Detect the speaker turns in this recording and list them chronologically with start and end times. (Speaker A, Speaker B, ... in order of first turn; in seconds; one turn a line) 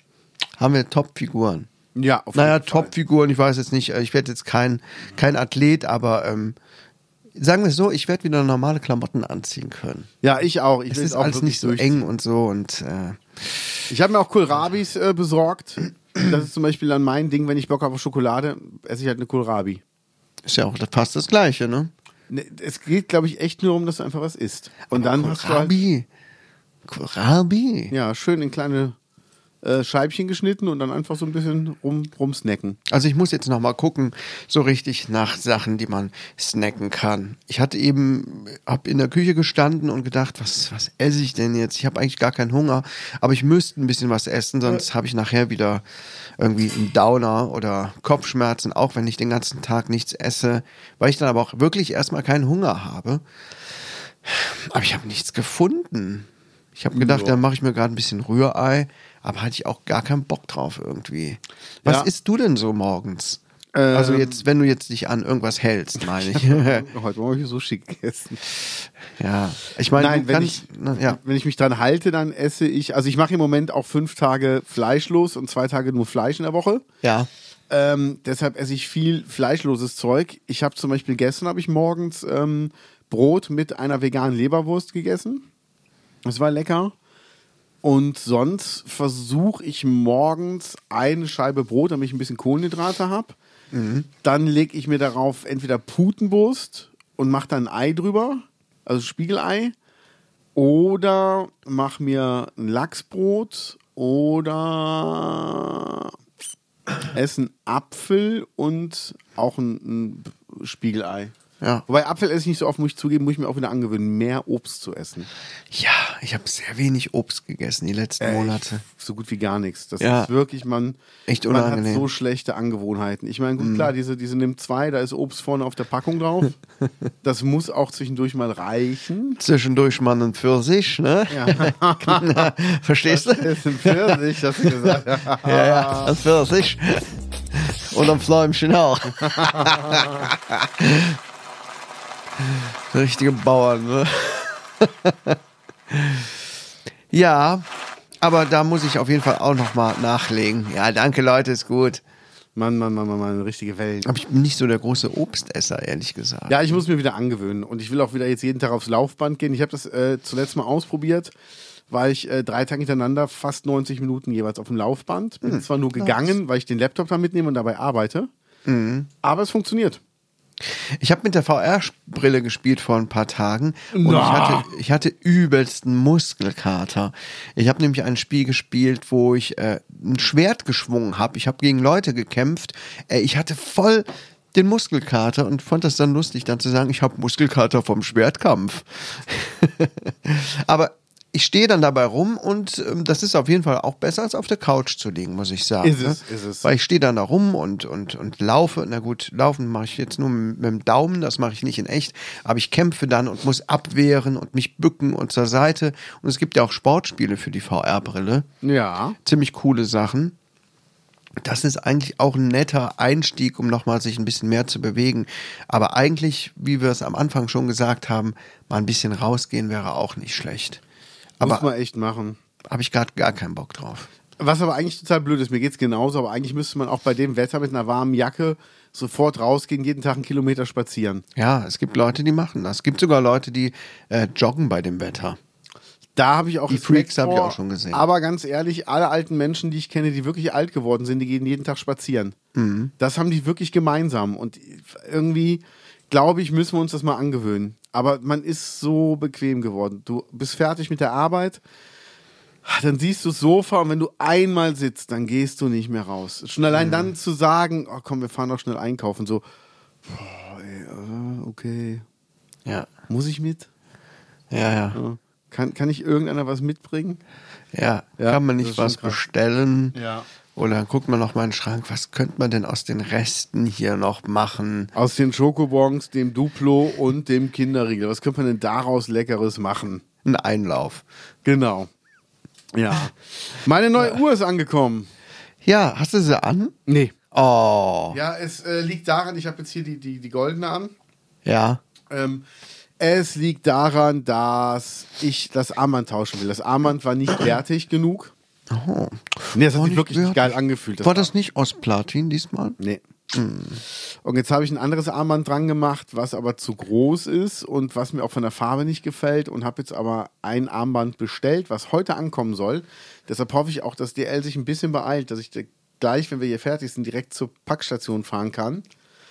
Speaker A: 0.6-1.7
Speaker B: 2.0-2.9
Speaker A: 2.4-6.6
Speaker A: 7.4-10.1
Speaker B: 10.2-12.1
Speaker A: 10.9-13.6
Speaker B: 13.9-19.8
Speaker A: 20.5-21.9
Speaker B: 22.3-25.8
Speaker A: 24.9-26.1
Speaker A: 26.9-27.9
Speaker B: 27.9-29.0
Speaker B: 29.6-32.8
Speaker A: 32.9-45.8
Speaker A: 46.4-53.2
Speaker A: 54.2-63.4
Speaker B: 56.9-57.4
Speaker B: 63.7-64.4
Speaker A: 63.9-66.9
Speaker B: 66.1-68.4
Speaker A: 69.2-71.2
Speaker B: 70.0-76.8
Speaker A: 77.0-77.3
Speaker B: 77.7-85.5
Speaker B: 86.2-86.9
Speaker B: 87.8-93.4
Speaker A: 93.7-94.1
Speaker B: 94.2-99.7
Speaker B: 100.6-106.1
Speaker B: 107.1-111.3
Speaker B: 111.9-115.3
Speaker A: 115.7-118.8
Speaker B: 118.2-121.0
Speaker A: 120.0-120.3
Speaker A: 121.3-122.1
Speaker B: 121.5-126.6
Speaker A: 123.6-123.9
Speaker B: 127.2-129.4
Speaker A: 129.4-141.2
Speaker B: 131.3-132.5
Speaker B: 133.1-136.1
Speaker B: 139.2-140.1
Speaker A: 142.4-145.4
Speaker A: 145.9-146.3
Speaker A: 147.1-147.7
Speaker A: 148.2-152.0
Speaker B: 152.6-154.1
Speaker A: 154.1-156.8
Speaker B: 156.5-161.3
Speaker B: 161.9-168.3
Speaker A: 165.4-166.4
Speaker A: 168.7-169.1
Speaker B: 169.2-170.0
Speaker A: 170.7-208.5
Speaker B: 173.9-174.7
Speaker B: 195.8-196.7
Speaker B: 208.6-209.2
Speaker A: 209.2-210.3
Speaker A: 211.4-220.8
Speaker A: 221.4-221.7
Speaker B: 221.4-222.4
Speaker A: 222.7-224.1
Speaker B: 224.4-231.2
Speaker A: 231.4-235.4
Speaker B: 236.2-242.4
Speaker A: 236.7-238.1
Speaker A: 242.6-242.9
Speaker B: 243.0-251.6
Speaker B: 252.7-259.4
Speaker A: 256.7-257.1
Speaker B: 260.1-262.1
Speaker B: 263.1-263.7
Speaker A: 264.5-265.0
Speaker B: 264.9-267.2
Speaker A: 267.7-270.0
Speaker B: 268.2-269.2
Speaker B: 269.9-270.3
Speaker A: 270.6-274.9
Speaker B: 274.9-280.0
Speaker A: 280.2-281.0
Speaker B: 281.4-281.9
Speaker B: 282.7-285.1
Speaker A: 285.6-286.8
Speaker B: 286.9-287.1
Speaker A: 287.3-288.2
Speaker B: 288.1-290.9
Speaker A: 291.4-291.8
Speaker B: 292.1-292.4
Speaker B: 293.0-298.3
Speaker A: 298.7-302.8
Speaker B: 299.5-301.3
Speaker A: 303.3-303.8
Speaker B: 304.2-318.8